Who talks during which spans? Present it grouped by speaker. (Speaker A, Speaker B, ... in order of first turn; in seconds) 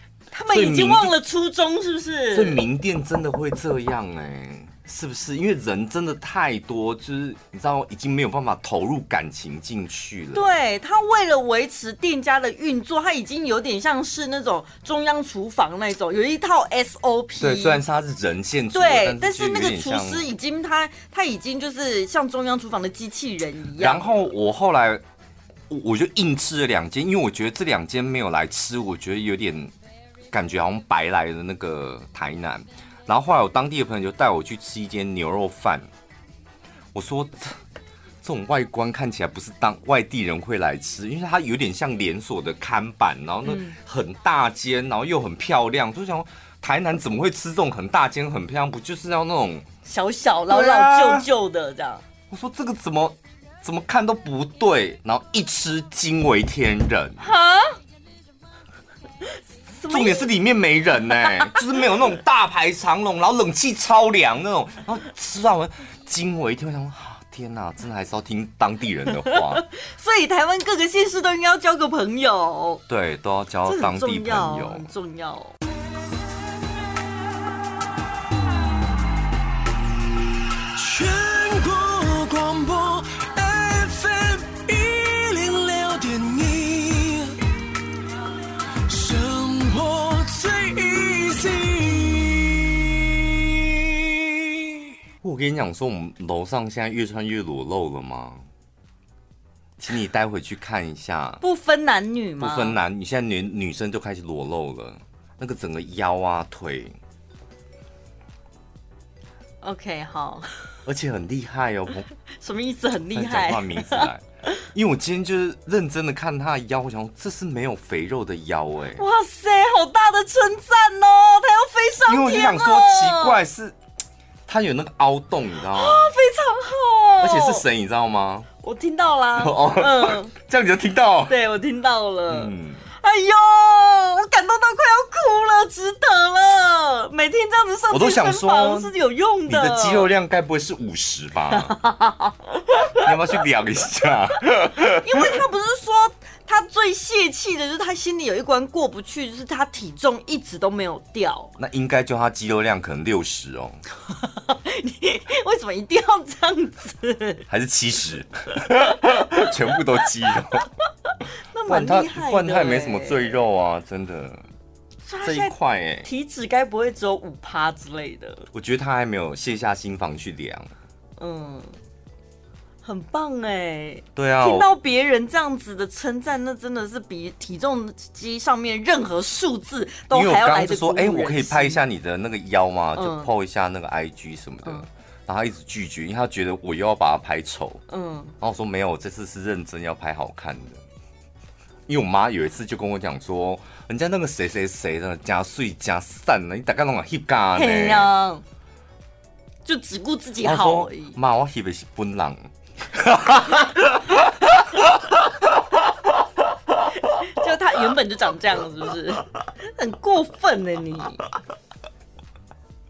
Speaker A: 0.3-2.6, 10.3-17.8, 18.7-24.3, 43.5-43.8, 49.9-52.0, 57.2-57.8, 59.7-60.3, 61.1-61.8, 69.2-72.8, 73.7-75.6, 101.4-102.8, 109.6-110.5, 112.3-114.1, 119.0-123.4, 125.7-127.7, 128.6-130.3, 131.3-140.1, 141.5-143.1, 144.9-151.5, 154.1-157.5, 161.5-163.4, 165.1-168.5, 171.2-171.7, 172.8-181.8, 182.9-183.3, 187.9-188.3, 197.6-198.4, 199.7-201.2, 207.0-211.2
Speaker B: 0.5-1.1, 2.3-10.5, 17.4-20.3, 23.8-25.0, 25.7-29.7, 30.3-35.9, 36.9-37.6, 38.2-49.7, 50.5-51.3, 52.3-57.2, 59.9-69.7, 72.9-74.8, 95.2-98.4, 99.8-101.4, 102.4-107.0, 110.9-112.1, 113.1-119.0, 122.1-123.8, 124.5-126.1, 127.2-128.5, 129.4-131.4, 132.3-132.8, 137.9-138.9, 139.5-141.8, 142.9-145.3, 151.6-153.8, 157.5-160.7, 161.7-164.4, 165.2-166.1, 168.5-170.7, 174.2-174.7, 180.1-187.8, 188.4-190.8, 191.9-198.1, 200.4-205.2
Speaker C: 80.6-87.4, 88.8-94.9